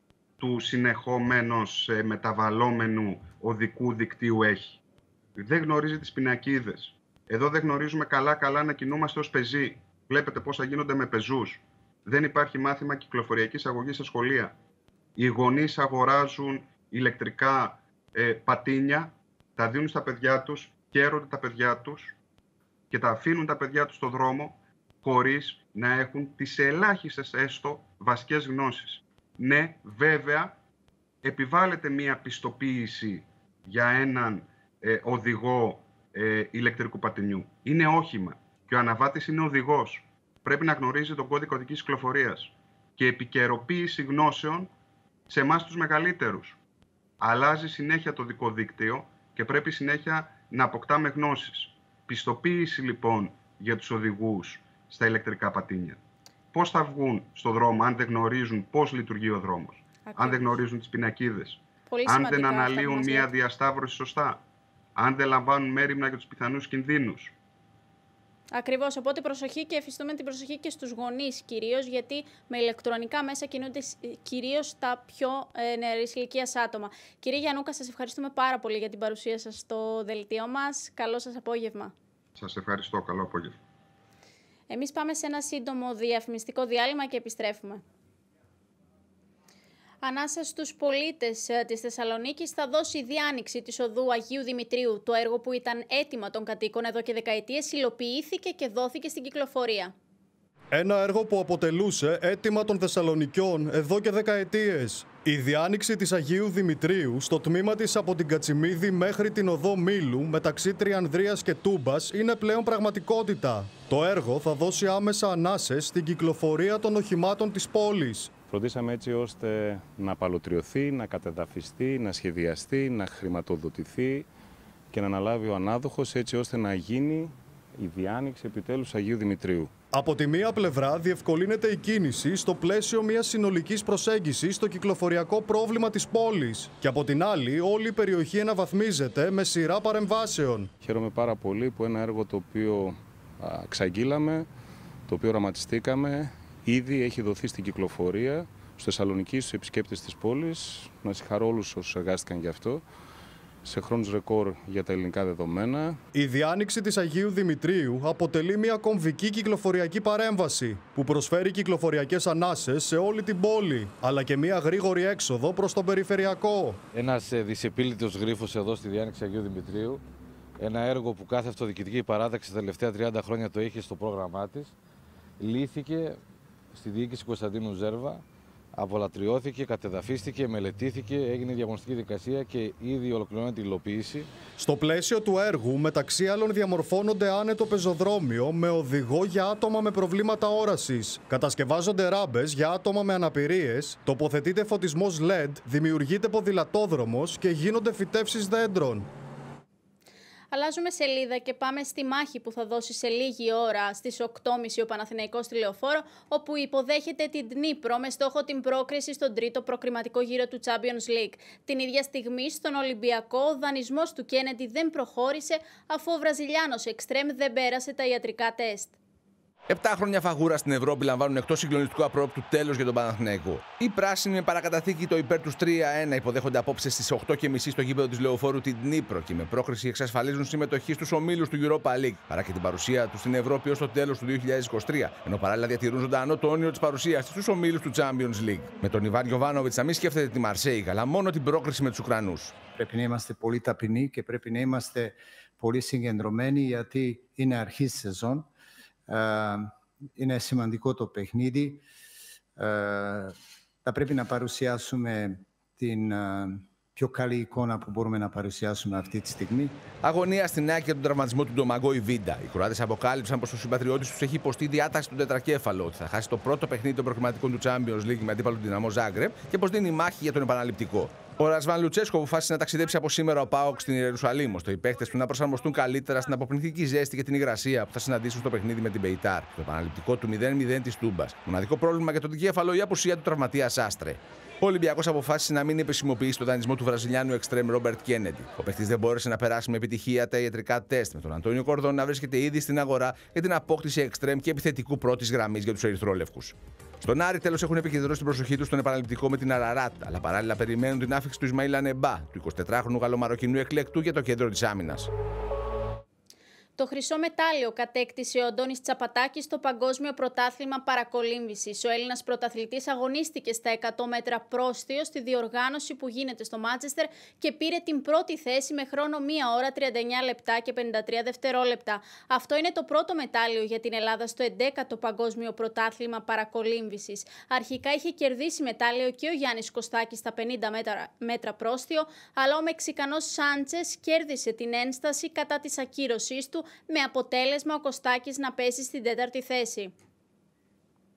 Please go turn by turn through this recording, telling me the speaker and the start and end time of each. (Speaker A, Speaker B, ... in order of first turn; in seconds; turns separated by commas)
Speaker A: 0.4-4.8, Speaker A: 5.4-14.5, Speaker A: 15.2-22.1, Speaker A: 22.9-30.6, Speaker A: 31.2-44.7, Speaker A: 45.3-46.6, Speaker A: 47.2-56.0, Speaker A: 56.5-64.4, Speaker B: 60.0-60.5, Speaker B: 61.9-63.3, Speaker A: 65.0-67.3, Speaker B: 68.5-81.9, Speaker A: 82.3-83.6, Speaker B: 84.7-87.8, Speaker B: 90.0-99.9, Speaker C: 100.7-118.4, Speaker D: 118.4-124.3, Speaker D: 124.9-129.7, Speaker C: 129.9-140.7, Speaker D: 140.8-144.5, Speaker D: 145.1-152.8, Speaker D: 153.6-156.0, Speaker C: 156.1-166.8, Speaker E: 166.9-170.0, Speaker E: 170.6-174.7, Speaker E: 175.4-176.2, Speaker E: 176.7-178.2, Speaker E: 178.7-184.3, Speaker C: 184.6-199.1, Speaker B: 200.5-218.9, Speaker F: 219.7-242.6, Speaker G: 242.7-248.5, Speaker G: 249.1-251.8, Speaker G: 252.6-259.8, Speaker F: 260.0-305.1, Speaker B: 306.8-339.9